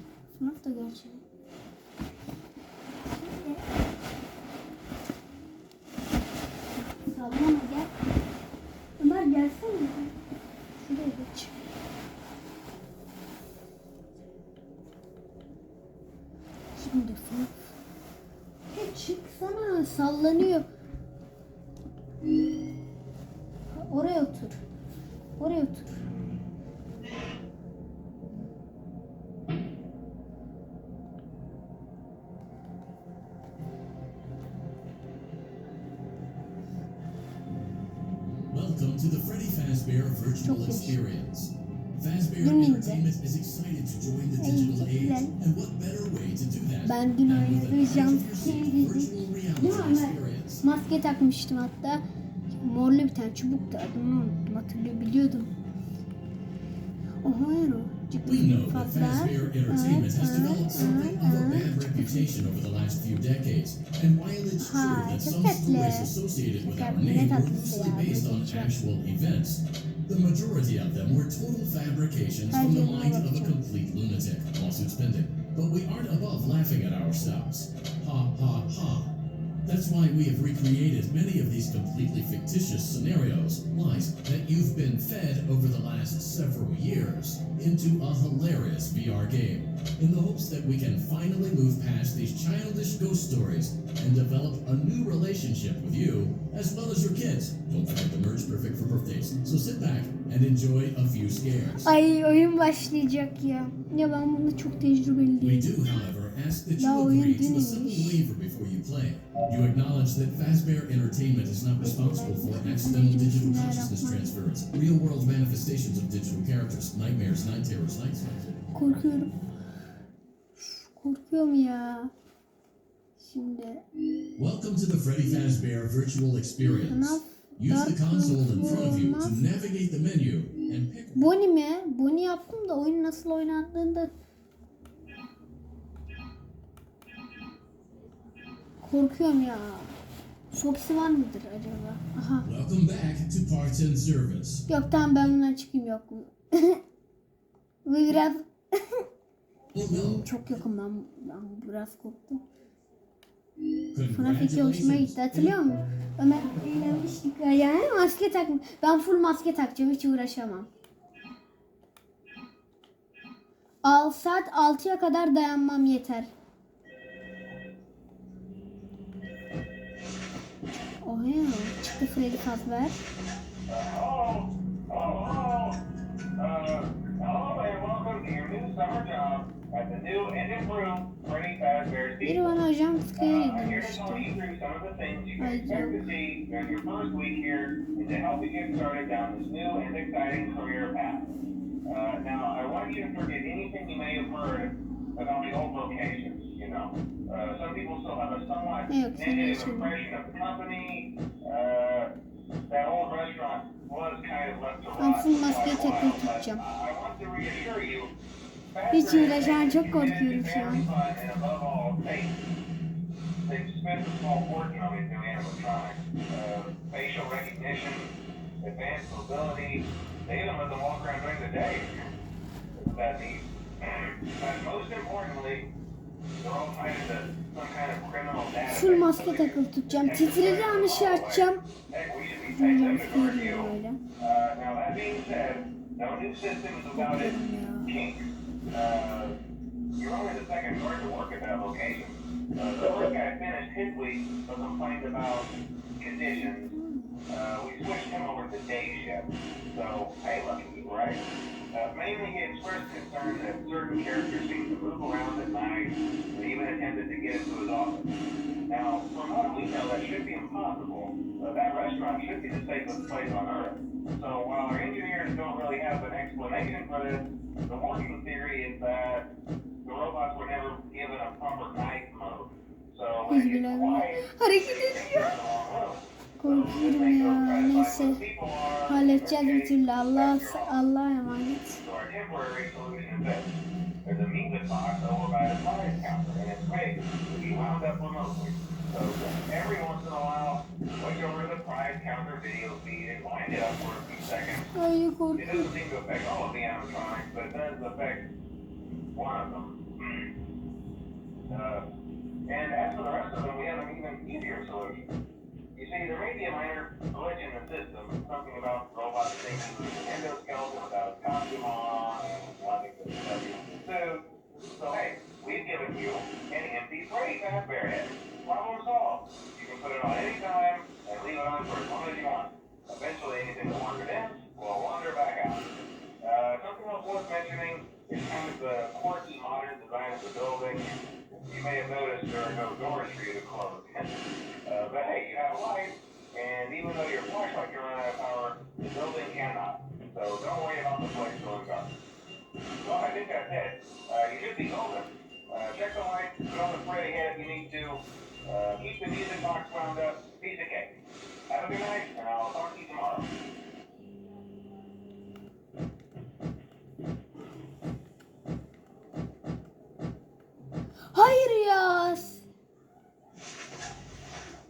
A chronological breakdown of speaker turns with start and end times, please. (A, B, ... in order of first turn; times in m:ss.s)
0:00.3-0:01.2 A
0:02.9-0:03.6 A
0:06.8-0:07.9 A
0:09.0-0:10.1 A
0:10.8-0:11.5 A
0:16.7-0:17.7 A
0:18.7-0:20.7 A
0:23.7-0:24.6 A
0:25.4-0:26.0 A
0:38.5-0:50.6 B
0:40.4-0:41.0 A
0:42.4-0:43.0 A
0:44.4-0:45.3 A
0:46.8-0:55.5 A
0:57.2-1:02.5 A
0:58.2-1:19.1 B
1:04.6-1:08.7 A
1:12.5-1:13.6 A
1:19.6-1:41.9 B
1:41.8-1:45.8 A
1:45.4-1:58.7 B
1:46.8-1:48.2 A
1:51.8-1:54.3 A
1:58.7-1:59.3 A
2:00.6-2:02.1 A
2:03.2-2:03.8 A
2:04.4-2:11.3 B
2:06.6-2:09.7 A
2:11.1-2:14.1 A
2:18.8-2:20.0 A
2:20.5-2:22.5 A
2:22.4-2:24.6 B
2:24.7-2:26.8 A
2:27.8-2:29.0 A
2:29.7-2:30.6 B
2:29.8-2:32.4 A
2:33.9-2:35.6 B
2:34.1-2:40.7 A
2:36.3-2:37.0 B
2:43.8-2:46.3 A
2:51.0-2:53.0 A
2:53.7-2:55.8 C
2:56.4-3:02.6 C
3:02.2-3:04.3 A
3:03.2-3:11.3 C
3:05.4-3:06.0 A
3:11.9-3:22.1 C
3:18.9-3:19.9 A
3:22.6-3:28.1 C
3:25.0-3:26.6 A
3:28.7-3:32.4 C
3:28.9-3:30.8 A
3:33.4-3:42.0 C
3:42.8-3:45.7 C
3:46.4-3:59.4 C
3:48.7-3:51.6 A
3:52.5-3:54.0 A
3:56.9-3:57.9 A
4:00.0-4:06.7 C
4:06.7-4:07.1 A
4:07.3-4:18.1 C
4:18.7-4:29.3 C
4:29.8-4:40.8 C
4:33.3-4:35.4 A
4:36.4-4:38.2 A
4:38.9-4:41.8 A
4:41.8-4:43.5 C
4:44.0-4:54.8 C
4:54.7-4:55.7 A
4:55.4-4:58.3 C
4:59.1-5:00.3 C
5:01.5-5:01.8 C
5:02.5-5:05.1 C
5:05.8-5:25.7 C
5:26.2-5:30.9 C
5:31.4-5:41.9 C
5:42.8-5:51.0 C
5:51.5-5:53.3 C
6:01.1-6:02.4 A